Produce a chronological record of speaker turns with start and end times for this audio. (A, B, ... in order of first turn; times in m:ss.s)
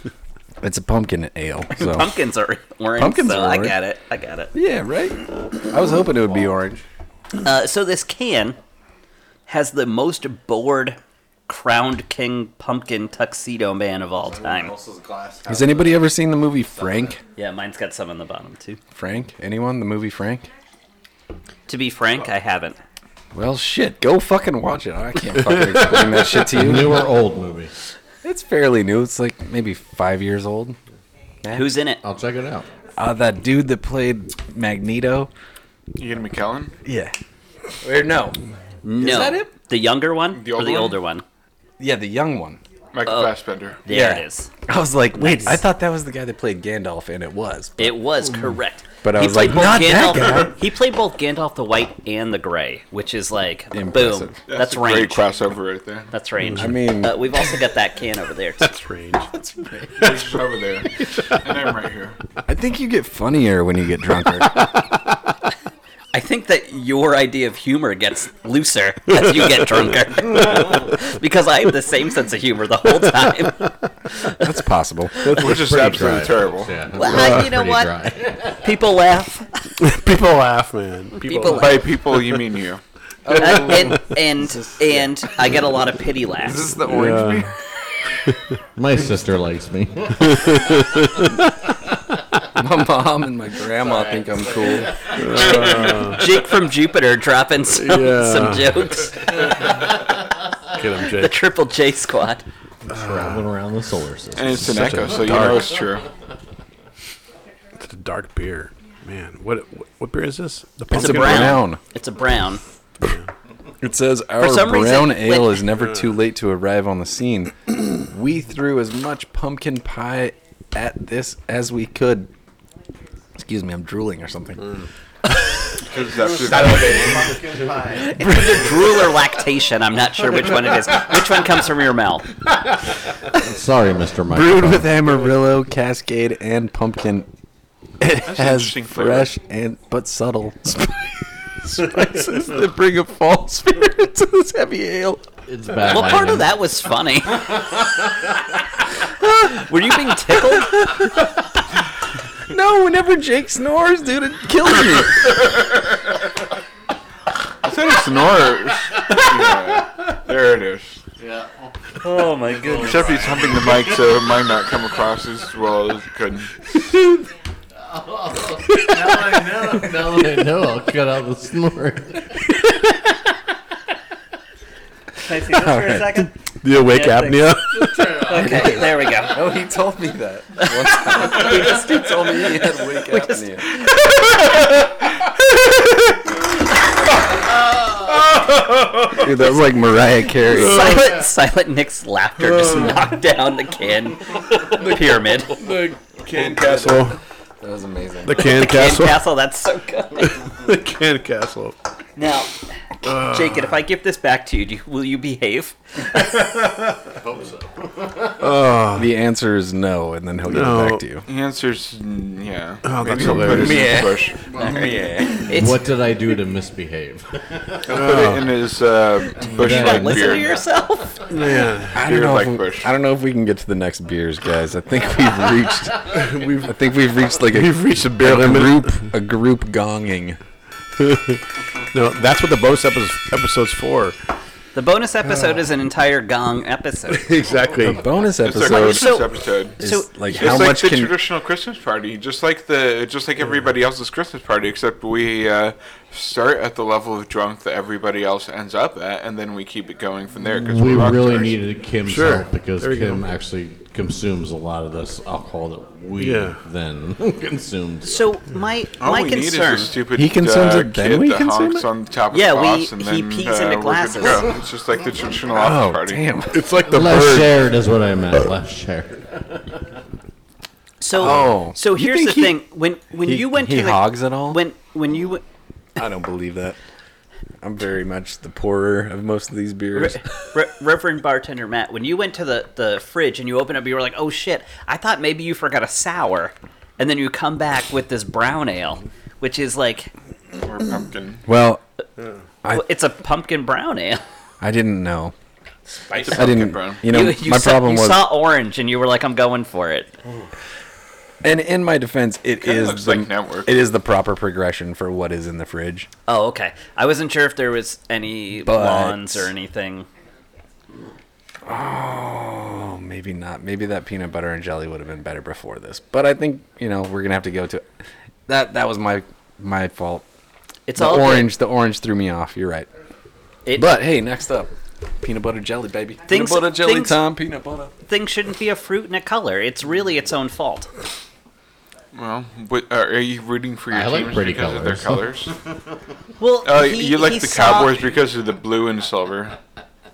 0:00.6-0:02.1 A
0:01.7-0:04.5 B
0:03.0-0:03.8 A
0:04.5-0:06.8 A
0:07.3-0:08.6 B
0:09.5-0:14.7 B
0:14.2-0:16.1 C
0:15.5-0:17.2 A
0:16.7-0:17.2 C
0:17.4-0:18.8 B
0:18.9-0:20.5 A
0:21.7-0:22.8 B
0:23.3-0:27.1 A
0:26.5-0:27.7 C
0:28.2-0:30.8 A
0:31.4-0:31.8 A
0:31.5-0:32.0 B
0:32.0-0:32.7 C
0:33.0-0:35.3 A
0:36.0-0:36.7 D
0:36.8-0:37.1 A
0:37.8-0:38.4 A
0:38.8-0:41.2 B
0:39.0-0:39.5 A
0:40.4-0:41.0 D
0:41.8-0:42.6 A
0:42.9-0:43.8 D
0:43.1-0:44.5 B
0:43.9-0:48.0 A
0:45.1-0:45.6 B
0:47.8-0:55.2 B
0:49.0-0:50.6 A
0:53.7-0:54.4 A
0:54.5-0:56.1 D
0:56.1-0:58.7 B
0:56.4-0:56.8 E
0:56.5-0:57.3 A
0:58.6-0:59.3 E
0:59.3-1:00.2 A
1:00.0-1:02.2 D
1:02.4-1:04.6 A
1:06.1-1:14.6 B
1:09.4-1:09.9 E
1:13.0-1:13.7 E
1:14.3-1:15.2 A
1:15.2-1:16.4 E
1:15.3-1:16.8 D
1:15.7-1:18.7 C
1:16.9-1:17.9 B
1:17.0-1:17.5 E
1:18.6-1:19.7 B
1:19.8-1:22.2 E
1:21.1-1:21.9 B
1:21.5-1:22.8 D
1:23.2-1:25.1 A
1:23.3-1:24.1 E
1:23.3-1:26.7 B
1:26.4-1:27.5 A
1:26.8-1:27.5 E
1:28.8-1:30.8 C
1:30.2-1:31.5 E
1:32.6-1:35.0 A
1:33.7-1:35.4 C
1:35.2-1:36.3 E
1:36.0-1:39.5 B
1:37.8-1:38.9 E
1:39.5-1:40.1 C
1:40.8-1:41.4 E
1:41.0-1:42.4 B
1:42.9-1:43.4 E
1:42.9-1:45.5 C
1:44.4-1:46.1 D
1:44.6-1:45.8 E
1:47.8-1:51.6 E
1:50.9-1:52.6 B
1:50.9-1:51.8 A
1:53.0-1:53.3 E
1:53.8-2:02.3 A
1:54.4-1:55.7 B
1:55.7-1:56.1 E
2:03.4-2:04.7 A
2:04.6-2:04.9 E
2:05.8-2:07.4 D
2:06.1-2:08.2 C
2:07.9-2:12.3 B
2:08.3-2:08.6 A
2:13.4-2:14.9 C
2:14.3-2:17.3 A
2:18.0-2:25.2 A
2:18.2-2:19.3 D
2:25.5-2:26.5 C
2:25.8-2:27.9 B
2:29.2-2:31.2 B
2:32.5-2:35.4 A
2:37.6-2:41.0 D
2:41.2-2:42.0 C
2:42.0-2:43.2 B
2:42.5-2:44.1 C
2:42.7-2:46.5 D
2:47.8-2:52.4 C
2:48.7-2:49.4 E
2:55.2-2:59.6 B
2:55.4-2:56.3 A
2:56.6-2:58.3 E
2:57.7-2:58.6 C
2:58.3-3:03.8 A
3:00.6-3:04.0 B
3:08.4-3:09.2 E
3:09.1-3:11.1 A
3:10.5-3:11.2 E
3:10.5-3:15.7 B
3:15.6-3:17.2 E
3:16.6-3:17.1 A
3:17.6-3:18.5 A
3:18.3-3:19.2 E
3:18.4-3:20.4 B
3:20.3-3:21.8 E
3:22.2-3:22.5 B
3:23.0-3:23.8 E
3:23.1-3:26.4 B
3:27.1-3:28.4 C
3:28.4-3:29.1 E
3:28.9-3:31.3 A
3:30.5-3:31.0 E
3:31.2-3:34.9 D
3:32.8-3:34.0 E
3:33.1-3:35.5 A
3:34.5-3:38.0 C
3:34.6-3:35.8 B
3:37.9-3:40.6 D
3:37.9-3:38.5 E
3:39.3-3:41.2 B
3:39.4-3:40.6 C
3:41.3-3:42.0 E
3:41.9-3:50.4 A
3:42.0-3:42.9 D
3:46.0-3:46.8 E
3:47.5-3:49.1 E
3:51.0-3:51.4 E
3:51.9-3:54.2 E
3:54.8-3:57.3 B
3:55.3-3:55.6 E
3:57.1-3:58.0 E
3:57.8-3:59.2 A
3:58.4-4:11.6 D
3:58.6-4:00.7 B
3:59.8-4:01.2 A
4:10.5-4:18.3 C
4:12.0-4:13.2 E
4:16.2-4:16.6 E
4:18.0-4:19.9 B
4:19.0-4:26.2 D
4:20.1-4:21.9 A
4:22.3-4:24.5 B
4:25.5-4:26.7 A
4:26.5-4:27.7 E
4:26.8-4:30.0 C
4:31.0-4:35.4 B
4:31.1-4:32.6 A
4:33.2-4:34.6 A
4:36.0-4:36.8 A
4:37.6-4:40.2 A
4:39.9-4:50.1 B
4:50.6-4:51.4 D
4:51.5-4:51.8 A
4:52.7-4:54.2 B
4:54.6-4:55.3 A
4:56.1-4:56.6 E
4:56.1-4:57.0 D
4:56.3-4:58.3 A
4:57.0-5:00.1 B
5:01.4-5:06.1 A
5:02.6-5:03.8 D
5:06.3-5:10.1 B
5:08.6-5:09.5 A
5:11.6-5:17.9 A
5:18.5-5:20.2 A
5:20.9-5:21.5 B
5:21.0-5:22.9 A
5:23.6-5:24.0 B
5:23.7-5:27.9 A
5:26.3-5:27.2 B
5:28.1-5:30.9 B
5:32.1-5:35.6 D
5:33.9-5:35.7 C
5:36.4-5:38.1 B
5:36.6-5:39.6 D